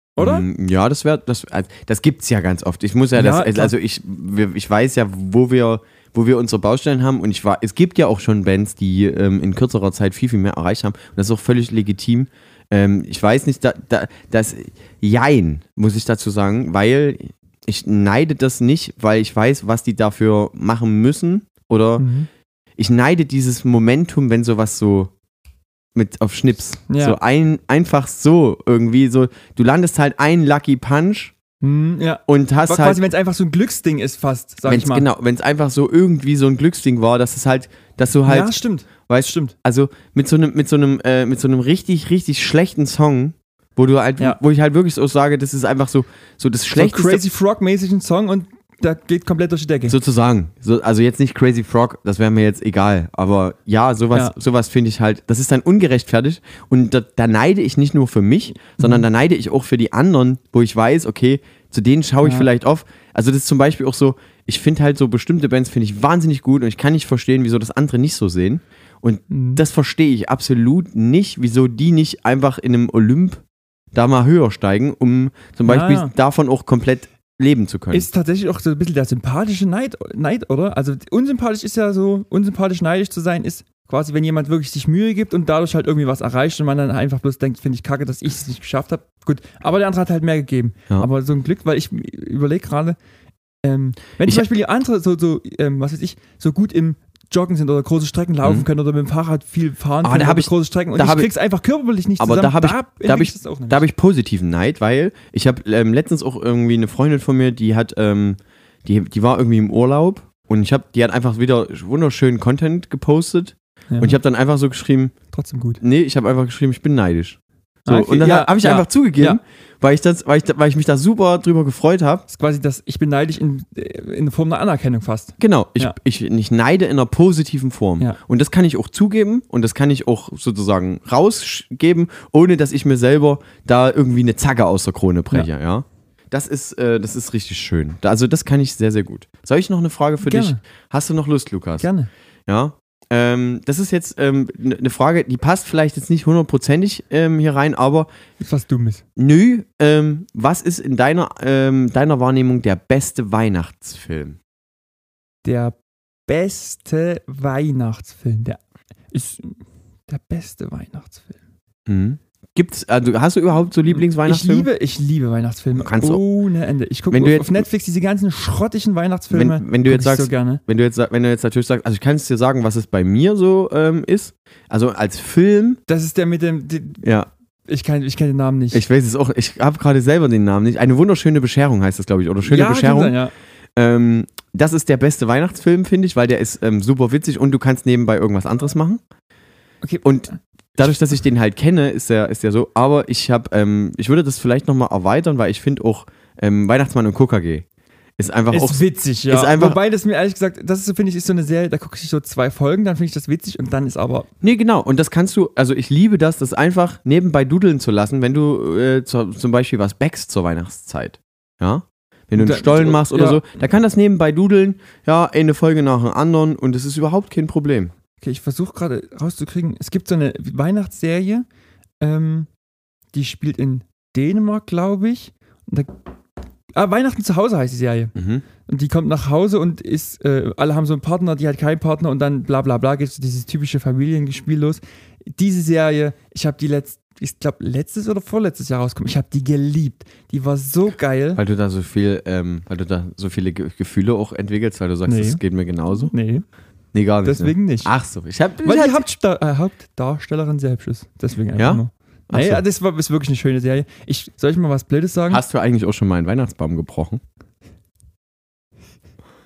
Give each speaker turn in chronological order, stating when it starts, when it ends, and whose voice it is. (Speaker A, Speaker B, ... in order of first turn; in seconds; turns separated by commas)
Speaker A: 0.2-0.5, Speaker B: 0.2-22.1, Speaker A: 3.1-3.7, Speaker A: 22.0-22.3, Speaker B: 22.8-25.1, Speaker B: 25.9-31.3, Speaker A: 26.9-27.2, Speaker A: 31.6-35.1, Speaker B: 32.3-33.0, Speaker B: 34.7-38.5, Speaker A: 38.3-39.5, Speaker B: 39.1-47.2, Speaker A: 46.7-50.0, Speaker B: 49.9-73.4, Speaker A: 58.8-59.0, Speaker A: 69.3-69.6, Speaker B: 73.9-78.1, Speaker A: 75.7-76.1, Speaker A: 77.9-93.0, Speaker A: 93.6-103.8, Speaker B: 100.0-101.3, Speaker B: 102.2-115.1, Speaker A: 113.9-114.2, Speaker A: 115.3-115.8, Speaker B: 115.8-122.2, Speaker A: 117.9-119.4, Speaker A: 122.3-126.0, Speaker B: 125.4-141.9, Speaker A: 140.2-140.6, Speaker A: 141.8-142.1, Speaker B: 142.5-148.1, Speaker A: 148.4-149.0, Speaker B: 149.2-154.4, Speaker A: 155.4-155.8, Speaker A: 156.3-158.6, Speaker A: 159.1-161.4, Speaker B: 161.9-164.7, Speaker A: 164.2-170.6, Speaker B: 165.8-166.2, Speaker B: 167.1-167.7, Speaker B: 169.3-175.8, Speaker A: 175.9-177.1, Speaker B: 177.0-177.3, Speaker A: 177.7-178.8, Speaker B: 178.7-183.2, Speaker A: 182.4-183.3, Speaker B: 183.8-189.0, Speaker B: 190.0-197.7, Speaker B: 198.2-199.8, Speaker A: 198.5-204.3, Speaker B: 204.4-217.9, Speaker A: 212.3-213.4, Speaker A: 218.2-221.5, Speaker A: 222.0-222.5, Speaker A: 223.1-225.9, Speaker A: 226.8-228.2, Speaker B: 228.2-228.4, Speaker A: 228.7-241.4, Speaker B: 241.4-246.1, Speaker A: 245.1-245.4, Speaker A: 246.1-246.4, Speaker B: 246.9-249.1, Speaker A: 247.2-247.9, Speaker A: 248.6-255.4, Speaker B: 251.6-252.6, Speaker B: 255.3-257.2